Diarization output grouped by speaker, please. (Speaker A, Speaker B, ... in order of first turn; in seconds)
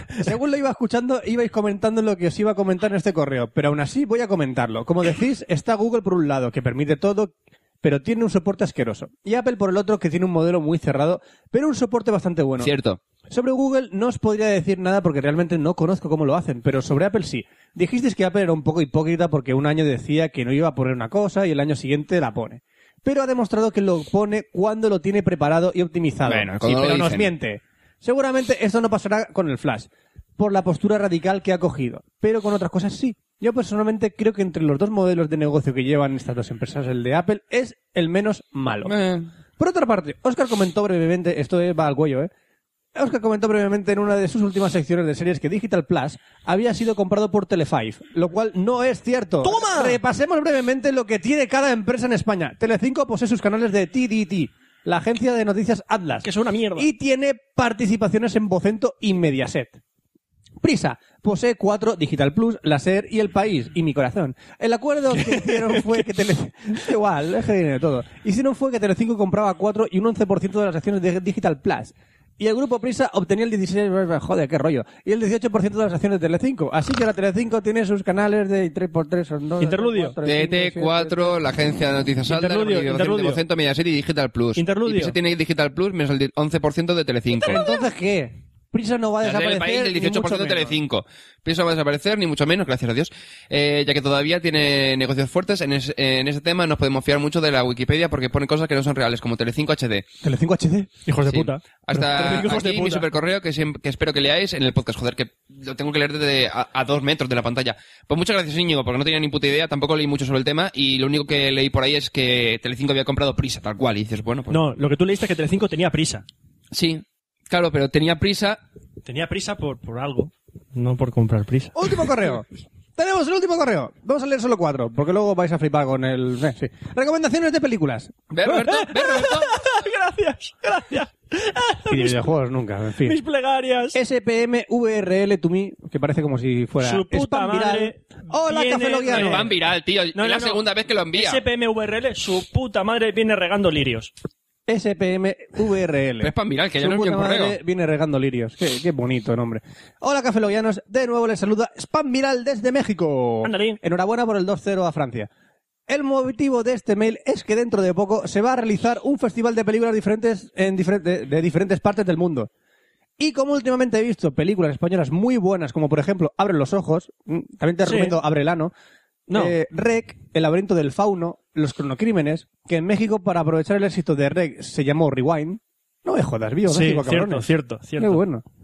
Speaker A: 0.1-12.7, 13.3-38.9, 39.6-42.3, 42.9-59.8, 60.6-81.3, 87.5-90.8, 100.2-100.9, 121.7-122.5, 123.0-128.2, 131.9-133.2, 133.9-139.5, 144.7-155.3, 155.9-162.5, 163.2-168.7, 169.3-178.4
Speaker B: 12.6-13.0, 26.2-27.3, 38.8-39.3, 80.2-87.6, 89.2-100.0, 101.2-114.6, 116.7-118.6, 128.3-129.5, 139.1-141.4, 146.2-147.6
Speaker C: 49.4-50.0, 56.2-56.9, 65.2-66.0, 79.6-80.2, 82.3-83.4, 84.5-85.1, 101.0-103.0, 114.5-116.2, 119.0-121.9, 128.4-132.3, 133.0-134.0, 136.8-139.6, 140.1-144.1, 153.4-153.8, 167.8-168.2, 169.3-169.5, 176.7-178.2